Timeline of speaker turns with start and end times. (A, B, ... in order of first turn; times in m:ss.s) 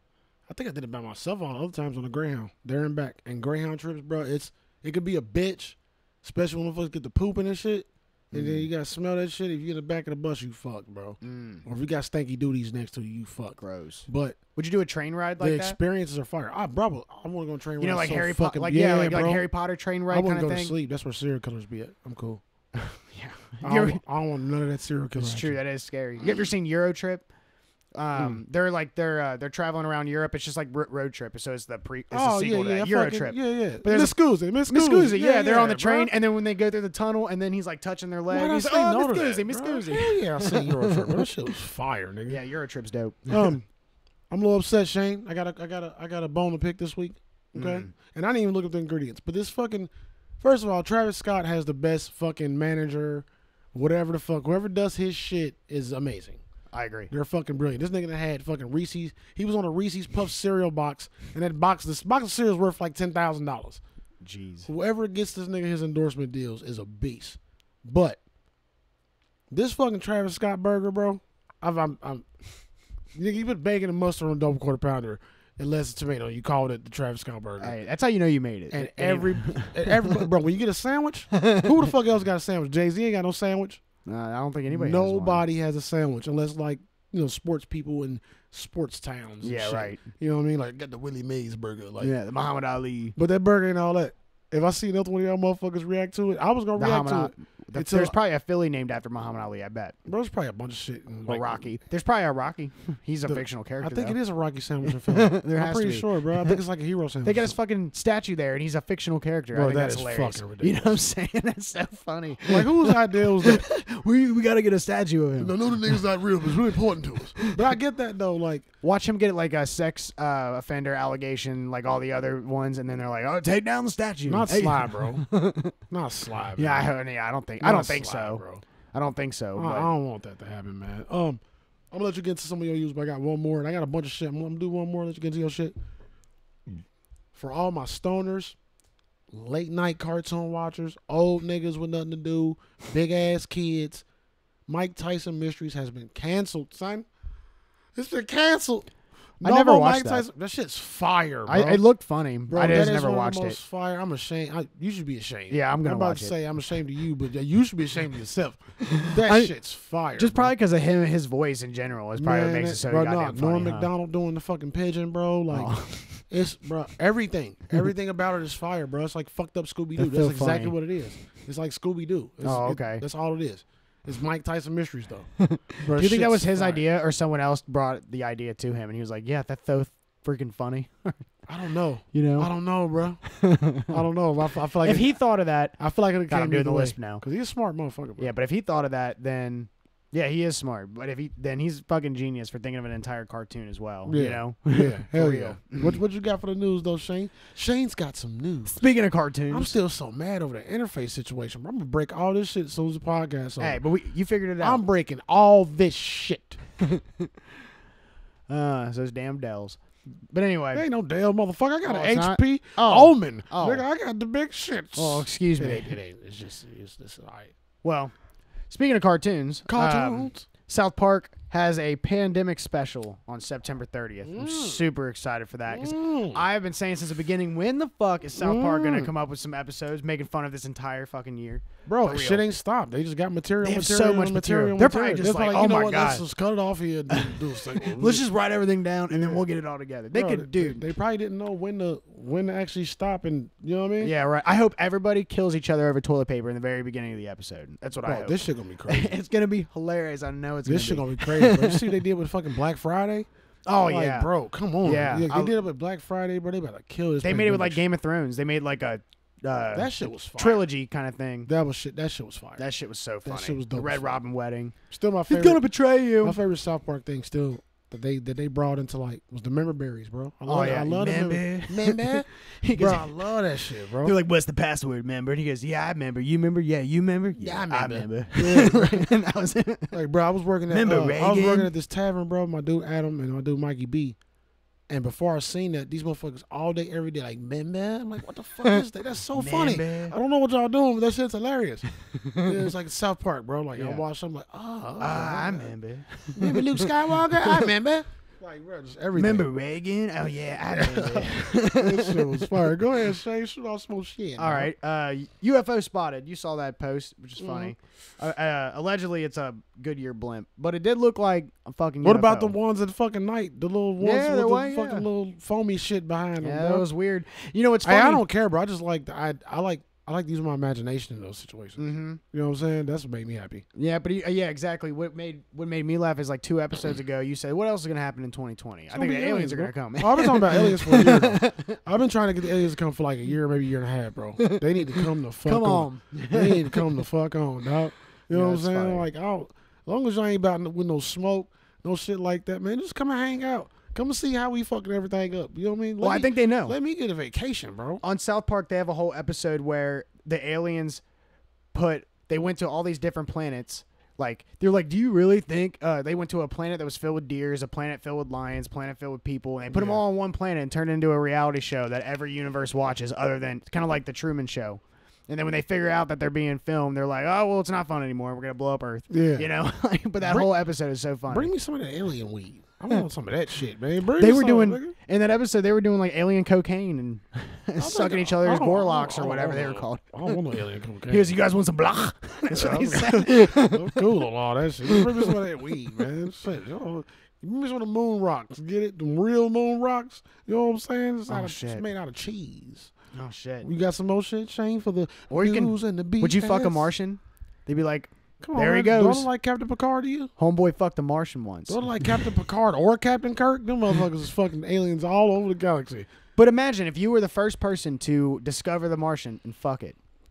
0:00.5-0:14.4 A
0:08.3-0:08.7 B
0:11.2-0:11.6 B
0:13.6-0:15.8 B
0:15.4-0:19.4 A
0:17.8-0:20.7 B
0:20.1-0:22.4 A
0:22.7-0:24.0 B
0:23.6-0:25.6 A
0:25.2-0:27.3 B
0:27.9-0:34.2 B
0:28.1-0:28.4 A
0:32.1-0:36.1 A
0:34.7-0:41.3 B
0:38.3-0:42.4 A
0:42.3-0:43.5 B
0:43.3-0:43.7 A
0:44.3-0:56.4 A
0:47.5-0:47.9 B
0:56.7-0:57.1 B
0:57.1-1:03.8 A
1:04.2-1:04.7 B
1:04.7-1:08.2 A
1:09.5-1:12.3 A
1:13.1-1:17.8 A
1:17.6-1:20.3 B
1:18.7-1:23.8 A
1:21.3-1:21.8 B
1:24.0-1:25.4 B
1:24.7-1:32.1 A
1:29.4-1:30.0 B
1:32.0-1:33.2 B
1:33.2-1:38.1 A
1:36.8-1:40.0 B
1:40.0-1:41.7 A
1:41.3-1:44.2 B
1:43.2-1:47.6 A
1:44.8-1:46.6 B
1:47.2-1:56.0 B
1:49.5-1:51.0 A
1:52.4-1:53.6 A
1:55.4-1:58.7 A
1:58.8-2:05.8 B
2:04.3-2:05.2 A
2:05.9-2:06.9 A
2:06.6-2:09.9 B
2:07.6-2:08.6 A
2:09.6-2:11.4 A
2:11.9-2:15.8 A
2:17.3-2:18.6 A
2:19.3-2:24.0 A
2:24.7-2:27.1 A
2:27.9-2:28.9 A
2:29.4-2:31.8 A
2:29.4-2:30.2 B
2:31.5-2:33.6 B
2:32.5-2:40.5 A
2:35.5-2:36.3 B
2:38.9-2:39.5 B
2:40.2-2:43.9 B
2:42.2-2:45.7 A
2:45.5-2:46.2 B
2:46.3-2:56.8 A
2:50.0-2:50.8 B
2:52.4-2:53.0 B
2:55.4-3:01.3 B
3:01.5-3:03.2 A
3:02.1-3:02.5 B
3:03.3-3:04.0 B
3:03.9-3:05.2 A
3:04.8-3:05.8 B
3:05.8-3:08.3 A
3:06.3-3:07.2 B
3:08.2-3:16.0 B
3:14.0-3:18.8 A
3:18.6-3:19.7 B
3:19.5-3:23.8 A
3:23.6-3:24.8 B
3:24.6-3:26.6 A
3:26.8-3:27.3 B
3:28.5-3:29.8 B
3:30.3-3:30.8 B
3:30.7-3:37.5 A
3:31.8-3:33.8 B
3:35.0-3:36.0 B
3:37.8-3:38.1 B
3:38.7-3:52.4 B
3:39.6-3:40.4 A
3:44.2-3:44.8 A
3:45.7-3:46.4 A
3:48.4-3:49.1 A
3:51.8-3:58.2 A
3:53.6-3:56.2 B
3:57.1-4:00.9 B
3:59.1-3:59.5 A
4:00.1-4:04.1 A
4:04.0-4:12.0 B
4:08.0-4:09.1 A
4:10.6-4:13.3 A
4:13.6-4:14.3 B
4:13.8-4:17.8 A
4:14.8-4:15.5 B
4:17.2-4:21.5 B
4:19.7-4:20.7 A
4:21.5-4:22.6 A
4:22.6-4:24.8 B
4:23.2-4:24.2 A
4:24.9-4:25.6 A
4:25.3-4:26.4 B
4:26.2-4:34.1 A
4:30.5-4:40.0 B
4:37.4-4:39.1 A
4:39.9-4:44.2 A
4:40.7-4:41.7 B
4:44.9-4:51.8 A
4:48.6-4:50.2 B
4:52.0-4:52.7 B
4:52.4-4:55.7 A
4:53.8-4:54.0 B
4:55.0-4:57.7 B
4:56.3-4:59.5 A
4:59.1-5:03.1 B
5:00.7-5:04.7 A
5:04.4-5:12.6 B
5:07.4-5:07.7 A
5:12.0-5:16.9 A
5:14.0-5:15.1 B
5:16.4-5:18.2 B
5:17.8-5:23.6 A
5:21.8-5:22.2 B
5:23.7-5:31.8 B
5:28.9-5:48.0 A
5:34.4-5:37.0 B
5:38.3-5:39.1 B
5:46.0-5:46.8 B
5:48.0-5:51.0 B
5:51.7-6:11.5 B
5:59.7-6:00.0 A
6:09.1-6:09.5 A
6:10.2-6:10.6 A
6:11.3-6:14.9 A
6:14.2-6:20.4 B
6:17.8-6:21.3 A
6:21.1-6:24.1 B
6:22.5-6:32.9 A
6:24.9-6:26.0 B
6:31.3-6:31.8 B
6:33.1-6:33.7 B
6:33.6-6:36.9 A
6:35.3-6:39.3 B
6:38.4-6:40.3 A
6:40.4-6:42.2 B
6:41.7-6:46.1 A
6:46.4-6:50.0 B